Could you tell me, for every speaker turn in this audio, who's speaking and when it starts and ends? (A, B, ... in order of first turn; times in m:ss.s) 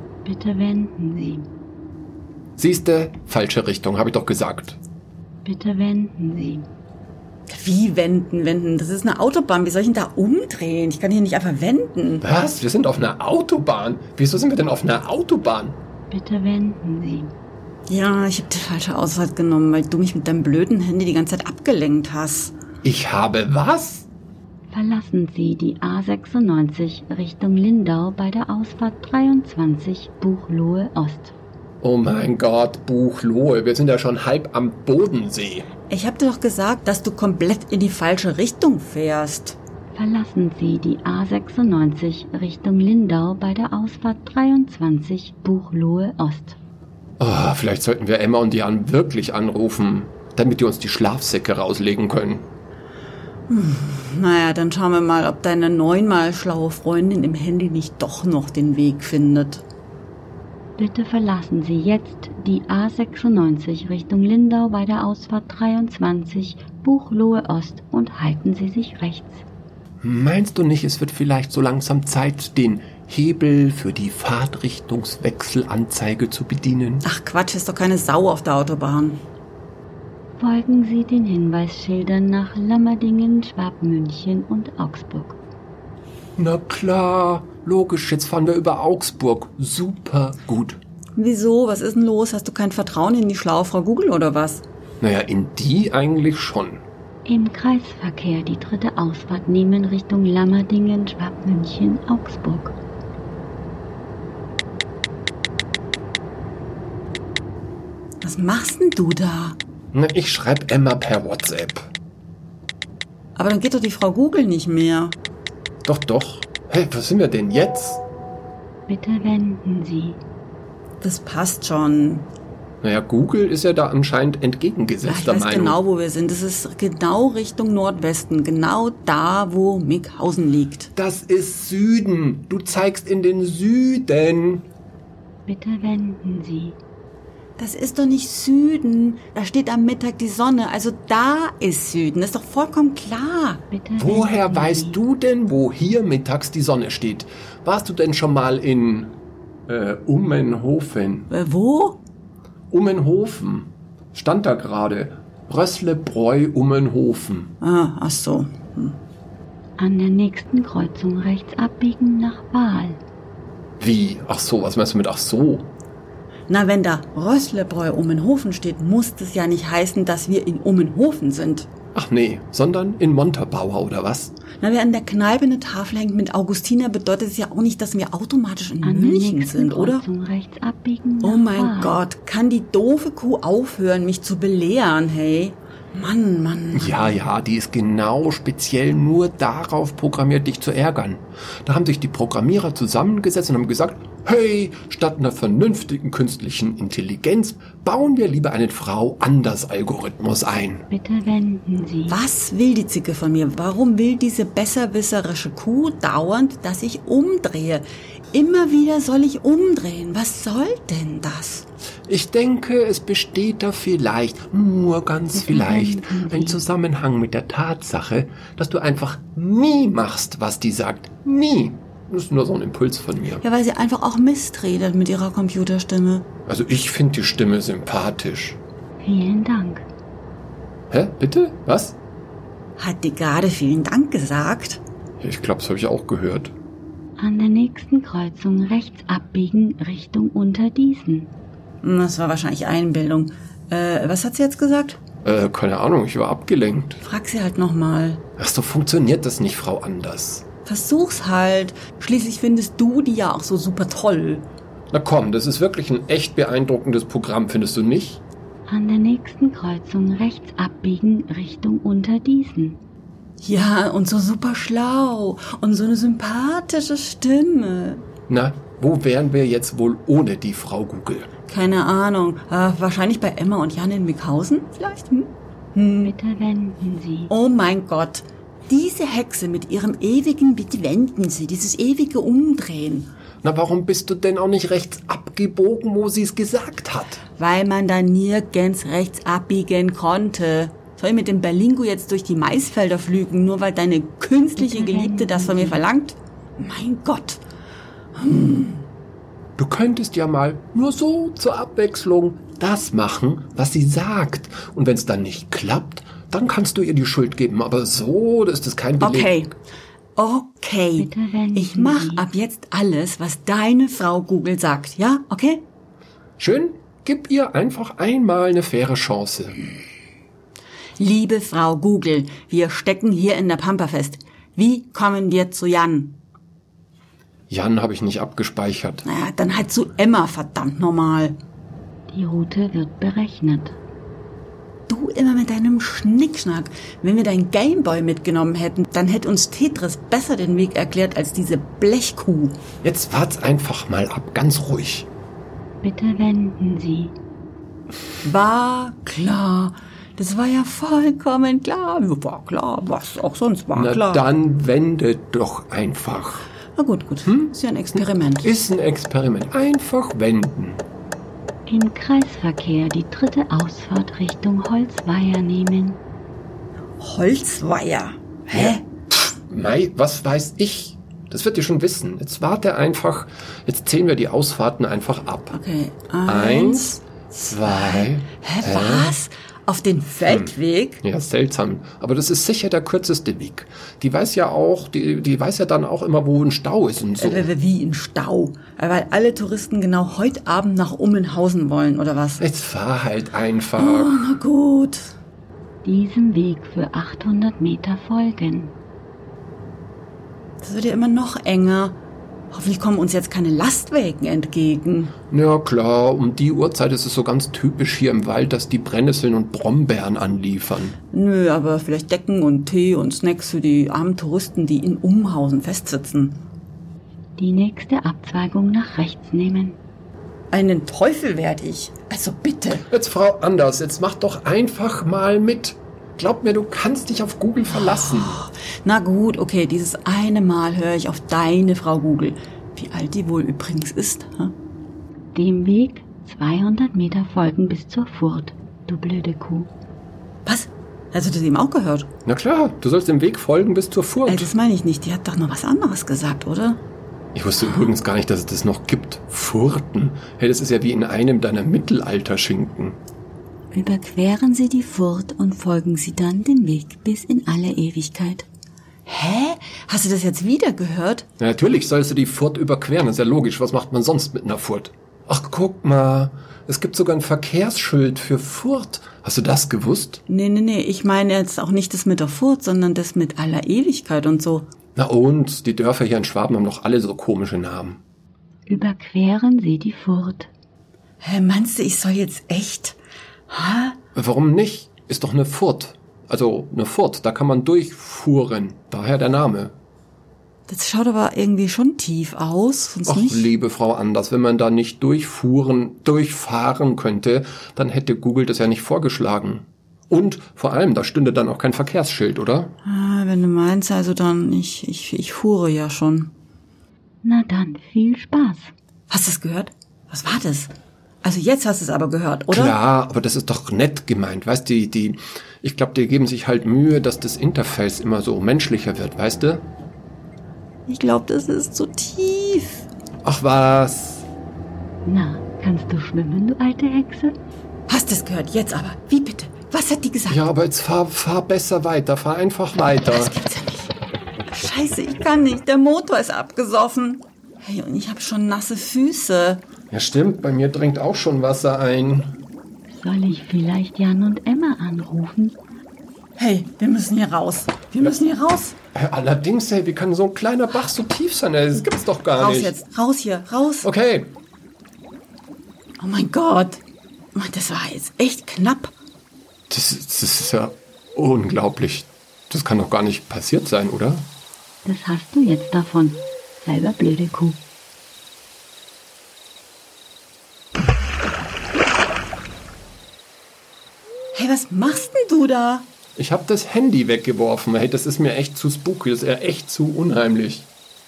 0:00.2-0:01.5 A
0:02.6-0:04.8 B
0:05.4-0:06.7 A
0:07.5-0:12.2 C
0:12.2-0:15.8 B
0:16.1-0:17.3 A
0:17.9-0:22.5 C
0:22.8-0:24.0 B
0:24.7-0:31.3 A
0:31.8-0:35.7 B
0:35.9-0:39.6 C
0:39.9-0:46.6 A
0:47.2-0:52.4 B
0:53.5-0:59.6 C
1:00.8-1:09.4 A
1:10.0-1:17.0 B
1:17.0-1:19.2 C
1:20.4-1:25.4 A
1:26.4-1:30.8 B
1:31.2-1:34.6 C
1:35.0-1:36.8 B
1:37.2-1:42.7 A
1:48.2-1:49.6 C
1:49.9-1:51.9 B
1:53.4-1:55.2 C
1:55.8-1:58.0 B
1:58.9-2:00.2 A
2:01.0-2:02.3 C
2:02.8-2:05.8 B
2:05.0-2:10.9 C
2:11.0-2:14.7 B
2:15.4-2:16.8 A
2:17.6-2:23.6 C
2:23.7-2:25.0 A
2:24.0-2:29.2 B
2:29.7-2:31.3 B
2:31.3-2:32.0 C
2:32.7-2:37.5 B
2:37.6-2:39.0 C
2:39.8-2:43.0 A
2:43.8-2:45.7 B
2:46.5-2:51.7 C
2:51.9-2:54.3 B
2:54.6-3:00.0 C
2:58.8-3:02.0 A
3:01.2-3:07.2 C
3:06.7-3:20.8 B
3:20.9-3:22.2 A
3:22.1-3:31.6 C
3:32.1-3:43.4 B
3:35.3-3:36.6 A
3:43.4-3:46.3 C
3:46.4-3:48.6 B
3:49.0-3:49.8 A
3:50.9-3:52.0 B
3:52.8-3:54.8 C
3:55.2-3:56.5 B
3:57.2-4:01.3 A
4:01.8-4:05.0 C
4:05.2-4:07.0 B
4:07.0-4:08.2 C
4:08.4-4:10.4 B
4:10.6-4:14.4 C
4:14.9-4:18.2 B
4:18.7-4:22.8 A
4:23.4-4:28.0 C
4:28.3-4:31.3 B
4:31.5-4:36.1 C
4:36.0-4:37.3 A
4:37.3-4:43.1 C
4:43.4-4:47.2 B
4:47.4-4:57.4 C
4:54.6-4:55.8 A
4:58.2-4:58.9 C
4:59.6-5:09.3 B
5:09.0-5:09.5 C
5:10.2-5:15.6 C
5:11.0-5:12.2 A
5:16.4-5:19.6 B
5:21.0-5:26.2 C
5:27.5-5:29.0 B
5:29.0-5:31.4 C
5:32.1-5:33.7 A
5:34.9-5:42.6 C
5:42.8-5:45.1 B
5:45.8-5:47.1 A
5:48.2-5:54.2 C
5:53.7-5:56.5 B
5:56.8-5:58.5 C
5:57.2-6:00.8 B
6:01.7-6:06.0 A
6:07.0-6:08.8 C
6:09.5-6:15.6 B
6:15.5-6:21.0 C
6:16.2-6:19.2 B
6:20.2-6:20.5 B
6:21.0-6:27.5 B
6:27.2-6:32.4 C
6:32.4-6:34.2 B
6:33.8-6:35.1 C
6:35.8-6:38.7 A
6:40.6-6:42.0 C
6:42.5-6:45.1 C
6:45.3-6:51.0 B
6:51.1-6:56.4 C
6:57.4-6:59.8 A
7:00.5-7:02.9 C
7:02.9-7:08.4 B
7:07.8-7:14.5 C
7:15.3-7:19.7 A
7:20.4-7:22.1 C
7:22.2-7:24.5 B
7:24.2-7:26.8 C
7:27.3-7:33.0 B
7:33.7-7:38.5 C
7:39.0-7:41.2 C
7:41.4-7:50.2 B
7:50.3-7:54.7 C
7:55.0-7:58.0 B
7:58.7-8:00.5 A
8:01.2-8:03.0 C
8:03.5-8:04.0 C
8:04.1-8:09.7 B
8:10.7-8:13.5 C
8:13.0-8:22.7 B
8:22.8-8:26.3 C
8:27.2-8:28.7 A
8:29.1-8:30.7 C
8:31.2-8:32.8 C
8:32.5-8:39.7 B
8:40.9-8:42.9 C
8:43.2-8:44.2 B
8:45.0-8:47.3 A
8:47.9-8:50.4 C
8:50.3-8:53.3 B
8:53.0-8:53.9 C
8:54.5-8:59.6 C
8:59.9-9:02.4 B
9:02.9-9:05.6 A
9:06.4-9:08.8 C
9:08.9-9:12.7 B
9:12.3-9:13.9 C
9:13.8-9:14.3 B
9:16.0-9:16.8 C
9:17.3-9:18.9 C
9:19.7-9:24.3 B
9:24.8-9:27.6 A
9:34.3-9:35.9 C
9:36.2-9:40.7 B